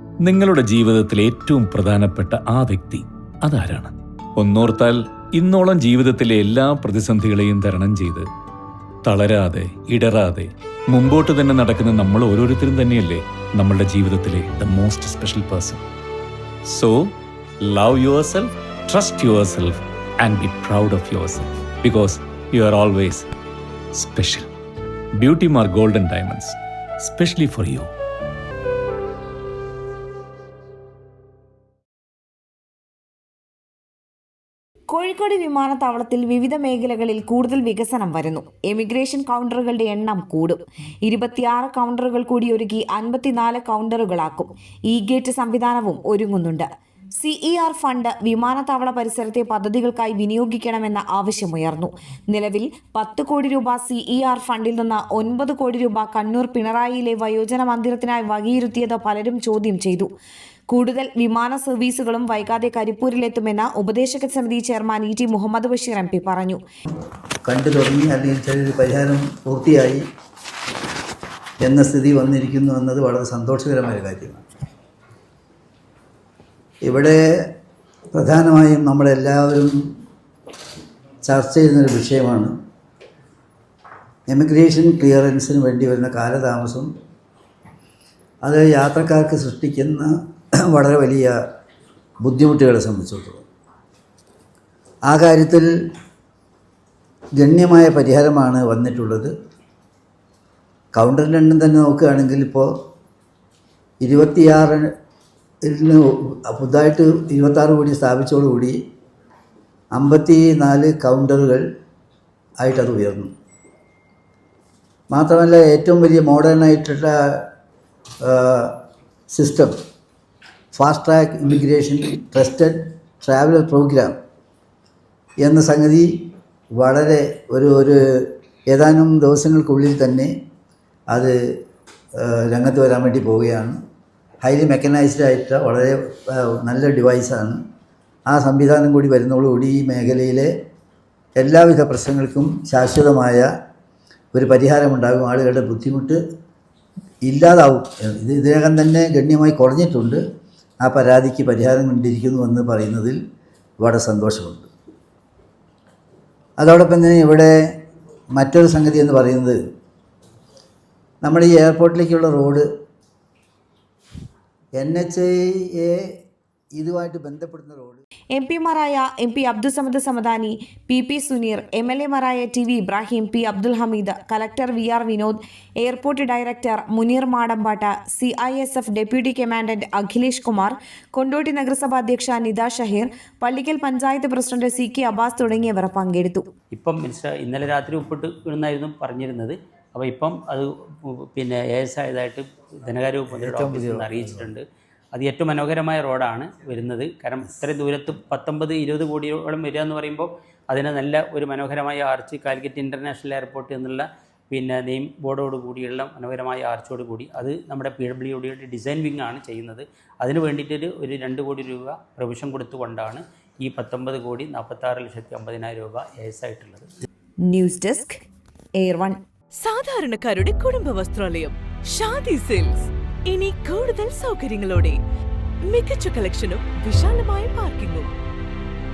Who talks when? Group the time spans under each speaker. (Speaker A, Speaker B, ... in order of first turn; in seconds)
Speaker A: 0.2-8.3, 9.0-15.8, 16.7-23.3, 23.9-24.5, 25.2-27.9
Speaker B: 34.9-60.1, 60.7-66.6, 168.3-186.4, 217.5-218.2, 218.8-219.2
Speaker C: 67.5-70.0, 71.6-74.4, 76.8-77.5, 78.1-79.8, 81.2-82.5, 84.3-86.9, 88.4-90.1, 90.7-91.3, 92.2-93.4, 95.1-95.7, 97.4-99.3, 100.9-102.7, 104.0-104.9, 105.6-108.8, 109.9-111.7, 112.6-113.3, 115.1-117.5, 118.2-118.8, 119.3-119.8, 120.7-124.2, 125.4-126.1, 126.8-130.3, 132.2-133.8, 134.4-137.6, 138.3-140.5, 141.4-143.5, 144.3-146.2, 147.2-150.2, 150.8-153.2, 153.8-154.7, 156.6-157.5, 158.3-159.6, 161.2-162.7, 164.8-166.1, 166.8-168.0, 193.3-194.5
Speaker D: 186.7-194.6, 195.1-216.9
Speaker E: 219.6-225.0, 225.6-228.1